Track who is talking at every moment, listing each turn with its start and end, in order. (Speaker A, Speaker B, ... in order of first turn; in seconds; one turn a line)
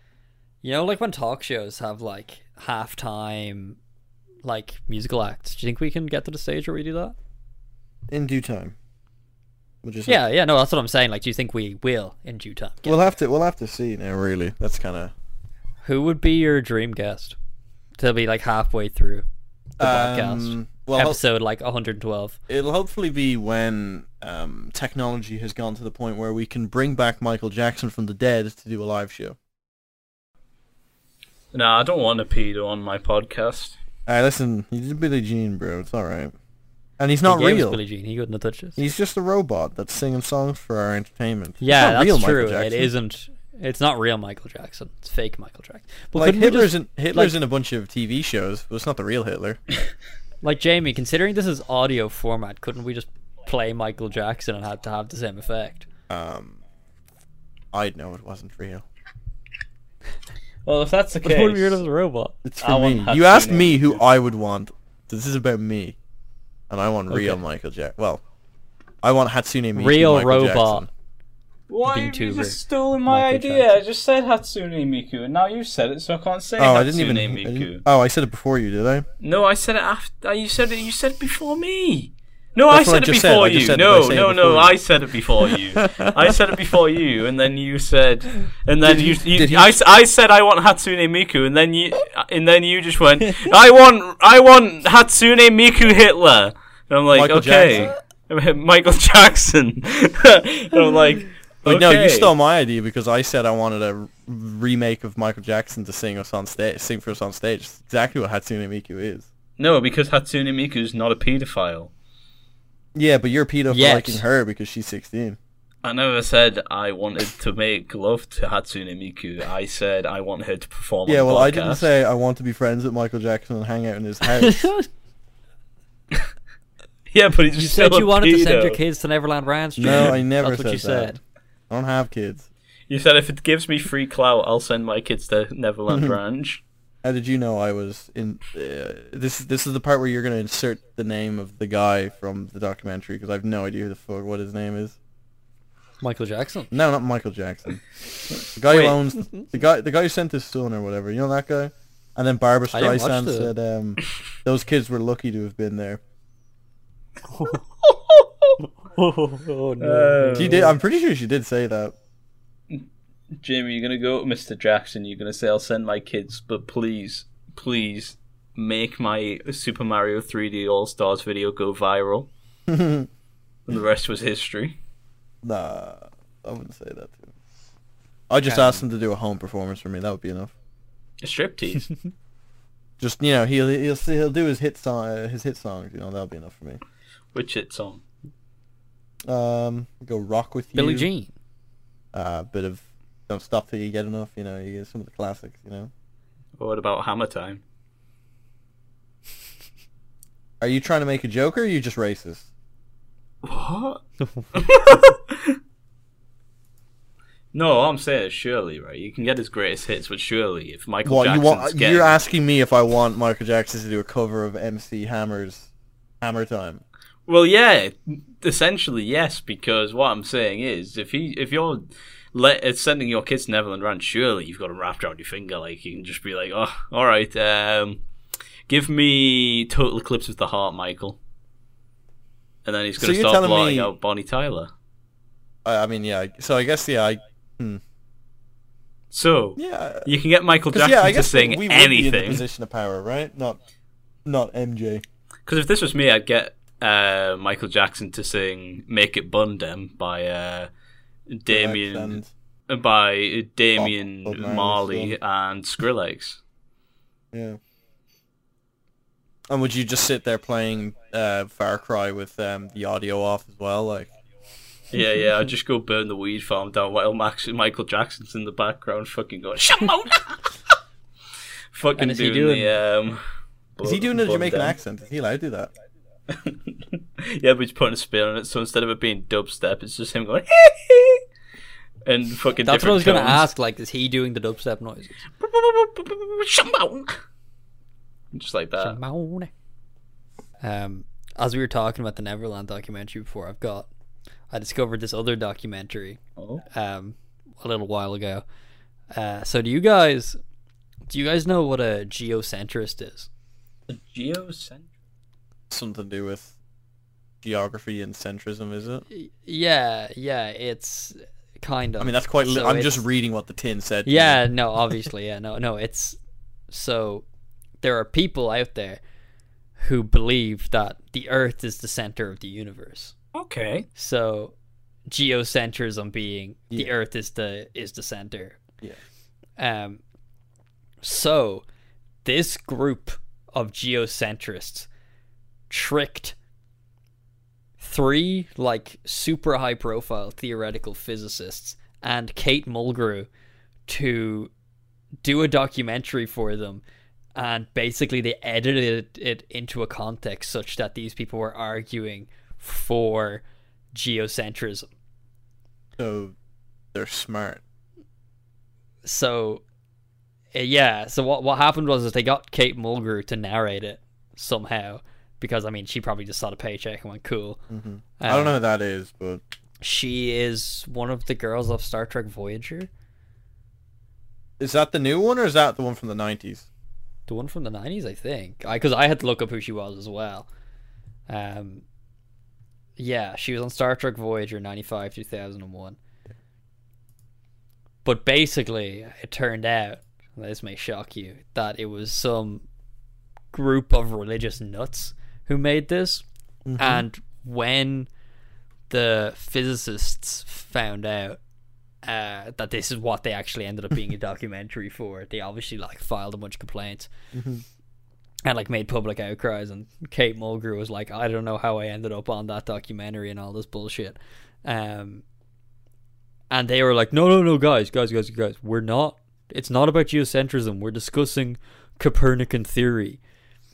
Speaker A: 0.6-3.8
Speaker A: 4.4-7.2
Speaker B: 8.1-8.7
Speaker B: 9.8-10.2
Speaker A: 10.1-13.2
Speaker B: 12.8-15.1
Speaker A: 15.8-17.4
Speaker A: 18.0-19.2
Speaker A: 19.8-22.4
Speaker B: 19.8-21.2
Speaker B: 22.5-29.4
Speaker C: 31.5-33.8
Speaker B: 34.0-36.3
Speaker B: 37.0-37.8
Speaker A: 37.2-38.8
Speaker B: 38.8-42.9
Speaker A: 41.6-47.4
Speaker B: 46.1-49.6
Speaker A: 50.4-55.9
Speaker B: 56.1-56.6
Speaker B: 57.7-58.8
Speaker C: 60.6-61.8
Speaker A: 61.2-62.4
Speaker B: 62.4-66.0
Speaker C: 62.6-64.0
Speaker B: 66.7-68.2
Speaker A: 67.1-67.4
Speaker B: 69.0-70.9
Speaker A: 69.7-70.9
Speaker C: 71.7-77.8
Speaker A: 71.9-73.8
Speaker B: 76.6-79.0
Speaker C: 79.2-102.3
Speaker B: 82.7-84.8
Speaker B: 85.5-86.4
Speaker B: 88.8-89.8
Speaker B: 97.1-97.9
Speaker B: 101.6-109.3
Speaker C: 109.6-111.9
Speaker B: 112.9-115.4
Speaker A: 113.7-114.2
Speaker C: 115.8-121.9
Speaker B: 121.0-124.7
Speaker A: 124.4-124.9
Speaker C: 127.1-128.8
Speaker A: 127.6-131.2
Speaker B: 129.8-131.2
Speaker C: 129.8-130.1
Speaker B: 131.7-132.5
Speaker C: 132.9-136.6
Speaker B: 135.9-136.2
Speaker B: 137.0-144.9
Speaker A: 146.0-146.7
Speaker B: 146.7-147.8
Speaker B: 148.6-156.0
Speaker C: 148.7-148.9
Speaker A: 149.2-149.5
Speaker A: 152.7-153.5
Speaker A: 157.3-157.6
Speaker C: 157.5-158.6
Speaker A: 158.6-160.7
Speaker C: 159.8-160.7
Speaker B: 160.3-161.9
Speaker C: 163.4-172.3
Speaker B: 172.7-173.1
Speaker C: 173.7-174.8
Speaker B: 175.4-177.3
Speaker B: 178.3-180.5
Speaker A: 178.4-178.8
Speaker C: 181.2-181.9
Speaker B: 183.0-186.8
Speaker C: 187.3-188.0
Speaker B: 189.3-191.1
Speaker A: 190.8-191.3
Speaker B: 192.1-195.9
Speaker C: 196.6-197.6
Speaker B: 200.6-202.5
Speaker C: 203.4-204.0
Speaker A: 204.2-204.5
Speaker C: 204.5-205.6
Speaker C: 207.5-212.1
Speaker B: 211.0-215.7
Speaker B: 216.2-216.8
Speaker C: 217.3-228.0
Speaker C: 228.7-231.2
Speaker C: 232.6-234.7
Speaker B: 233.0-233.9
Speaker B: 235.6-237.8
Speaker C: 239.1-242.4
Speaker B: 239.6-240.1
Speaker B: 240.7-243.6
Speaker B: 244.2-245.0
Speaker C: 245.5-250.7
Speaker C: 251.3-256.4
Speaker B: 251.5-252.3
Speaker B: 253.8-255.2
Speaker B: 257.3-257.6
Speaker B: 259.5-264.1
Speaker C: 264.9-270.5
Speaker C: 271.7-273.2
Speaker A: 271.9-272.8
Speaker C: 273.8-274.8
Speaker B: 273.8-275.7
Speaker C: 276.3-281.2
Speaker C: 282.1-283.5
Speaker A: 282.6-285.2
Speaker C: 285.4-287.2
Speaker C: 288.3-289.0
Speaker A: 288.8-289.5
Speaker A: 290.6-293.9
Speaker A: 294.5-296.2
Speaker C: 296.4-296.6
Speaker A: 296.7-298.4
Speaker A: 299.1-300.4
Speaker A: 301.1-303.3
Speaker C: 303.9-304.9
Speaker B: 305.7-306.5
Speaker B: 307.4-309.0
Speaker A: 309.1-313.0
Speaker B: 312.0-314.4
Speaker A: 314.1-316.2
Speaker A: 316.7-317.2
Speaker A: 317.8-319.0
Speaker A: 319.8-323.1
Speaker C: 323.3-323.9
Speaker A: 323.9-324.5
Speaker A: 325.1-328.6
Speaker A: 329.6-330.0
Speaker A: 331.0-331.6
Speaker A: 332.2-334.9
Speaker A: 335.7-336.4
Speaker A: 337.8-343.3
Speaker A: 343.9-344.5
Speaker A: 345.2-346.8
Speaker A: 347.3-353.4
Speaker A: 353.9-354.9
Speaker B: 356.0-356.3
Speaker B: 356.9-357.6
Speaker A: 359.0-359.6
Speaker A: 360.5-367.6
Speaker B: 367.7-369.4
Speaker A: 368.2-368.6
Speaker A: 369.8-372.9
Speaker B: 374.6-376.6
Speaker A: 377.3-380.5
Speaker A: 381.3-381.8
Speaker A: 383.0-386.0
Speaker A: 388.0-392.6
Speaker A: 393.5-396.2
Speaker B: 396.6-397.1
Speaker A: 396.8-398.1
Speaker A: 398.9-401.4
Speaker A: 402.0-407.1
Speaker B: 407.3-407.6
Speaker A: 408.4-415.2
Speaker A: 416.5-423.2